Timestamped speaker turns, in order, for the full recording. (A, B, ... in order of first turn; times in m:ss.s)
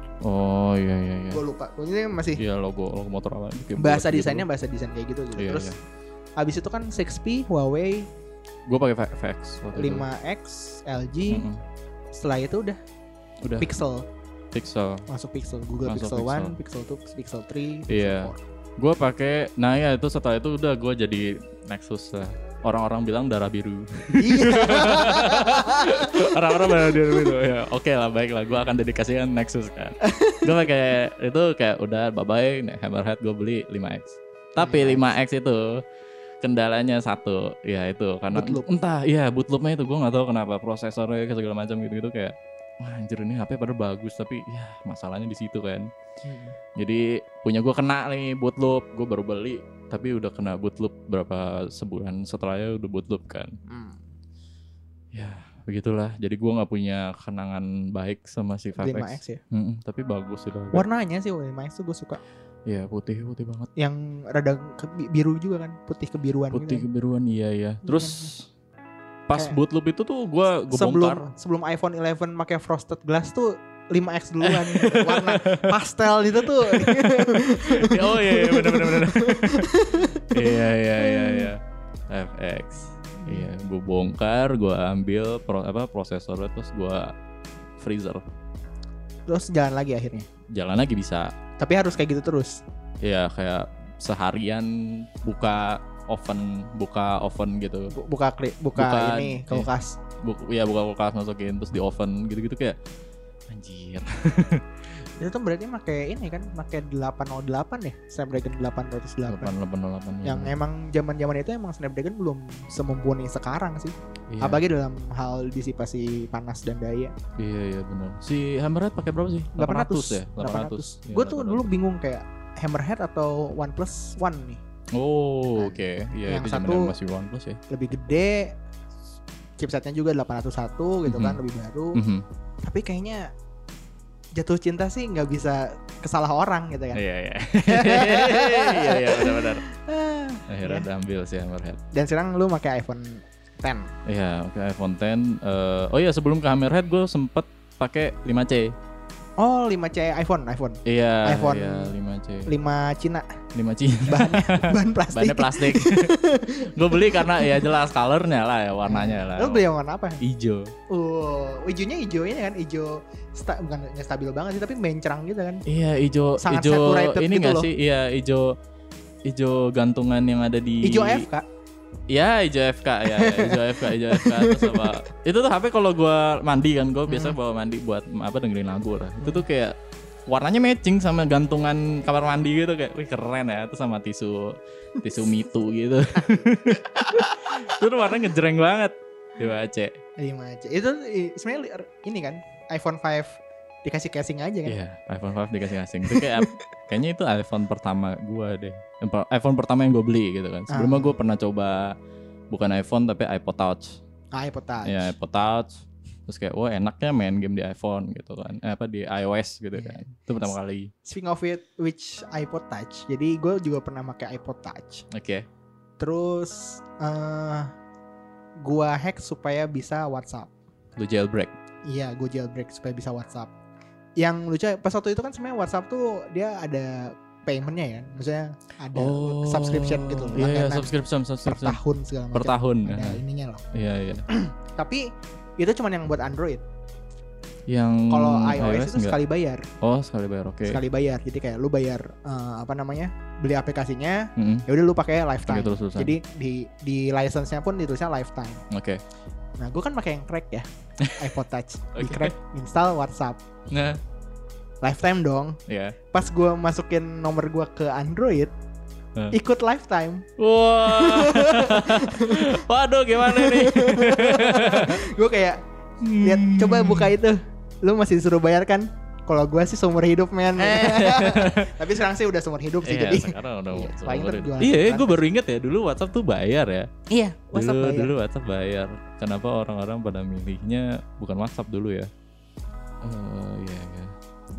0:00.2-0:01.4 A
0:01.3-0:02.4 B
0:02.4-0:04.5 A
0:03.8-0:05.7 B
0:05.4-0:05.8 A
0:06.4-0:08.1 B
0:08.7-0:10.1 A
0:09.8-0:11.5 B
0:11.3-0:11.6 A
0:12.1-0:12.8 B
0:13.6-0:14.1 B
0:14.5-0:15.1 A
0:15.1-0:18.4 B
0:15.8-0:16.6 A
0:17.9-0:35.8 A
0:24.2-0:27.3 B
0:30.0-0:30.5 B
0:34.6-0:35.1 B
0:36.4-0:45.9 A
0:38.3-0:38.7 B
0:46.2-0:46.6 B
0:46.8-0:53.5 A
0:53.7-0:54.0 B
0:55.1-1:00.8 A
0:58.8-0:59.4 B
1:00.7-1:02.2 B
1:02.7-1:03.7 A
1:03.8-1:06.9 B
1:06.5-1:08.5 A
1:07.8-1:08.3 B
1:09.3-1:11.2 A
1:10.7-1:21.5 B
1:14.4-1:15.8 A
1:16.3-1:27.1 A
1:27.8-1:28.2 A
1:29.3-1:30.3 B
1:30.5-1:31.3 A
1:31.6-1:32.6 B
1:33.0-1:37.9 A
1:37.9-1:40.0 B
1:38.8-1:39.7 A
1:40.2-1:42.8 A
1:43.5-1:44.6 A
1:45.2-1:49.6 B
1:49.3-1:50.5 A
1:50.2-1:57.1 B
1:54.3-1:54.6 A
1:57.4-2:01.7 A
1:59.6-2:04.6 B
2:04.9-2:07.6 A
2:05.6-2:07.0 B
2:07.7-2:08.6 B
2:09.6-2:12.0 B
2:11.1-2:11.4 A
2:11.9-2:12.2 A
2:12.6-2:13.3 B
2:14.4-2:17.0 B
2:16.9-2:19.6 A
2:17.7-2:20.9 B
2:20.5-2:21.8 A
2:21.9-2:23.9 B
2:24.1-2:28.8 A
2:29.4-2:31.9 B
2:30.8-2:32.5 A
2:32.5-2:33.3 B
2:33.5-2:39.6 A
2:34.1-2:37.7 B
2:38.8-2:40.2 B
2:40.2-2:40.7 A
2:40.9-2:45.6 B
2:45.7-2:48.5 A
2:46.4-2:47.7 B
2:49.3-2:51.3 A
2:50.8-2:51.5 B
2:52.1-3:10.0 A
2:53.1-2:54.9 B
2:57.1-2:57.4 B
3:06.2-3:08.2 B
3:10.2-3:14.8 B
3:14.7-3:22.0 A
3:16.1-3:16.5 B
3:20.7-3:21.2 B
3:22.5-3:24.0 A
3:24.3-3:25.1 B
3:24.8-3:30.9 A
3:29.8-3:30.0 B
3:31.0-3:35.0 B
3:35.1-3:35.5 A
3:36.0-3:37.7 B
3:38.6-3:40.5 B
3:41.0-3:41.5 A
3:41.9-3:43.5 B
3:44.2-3:50.9 B
3:48.9-3:51.8 A
3:51.4-3:53.6 B
3:52.3-3:53.2 A
3:53.7-3:54.3 A
3:54.3-3:55.0 B
3:55.6-3:56.6 B
3:57.7-3:59.2 A
3:58.1-3:59.6 B
3:59.8-4:00.8 A
4:00.7-4:08.6 B
4:04.4-4:04.7 A
4:05.5-4:06.2 A
4:08.7-4:09.0 A
4:09.6-4:13.4 B
4:11.0-4:11.3 A
4:12.0-4:12.3 A
4:13.7-4:14.0 A
4:14.8-4:15.6 B
4:15.7-4:16.0 A
4:16.1-4:18.5 B
4:19.3-4:20.3 B
4:20.4-4:25.0 A
4:20.8-4:22.5 B
4:23.2-4:25.6 B
4:26.0-4:27.1 A
4:26.2-4:35.2 B
4:30.6-4:31.7 A
4:32.8-4:36.9 A
4:37.1-4:38.1 B
4:37.5-4:42.1 A
4:43.0-4:44.1 A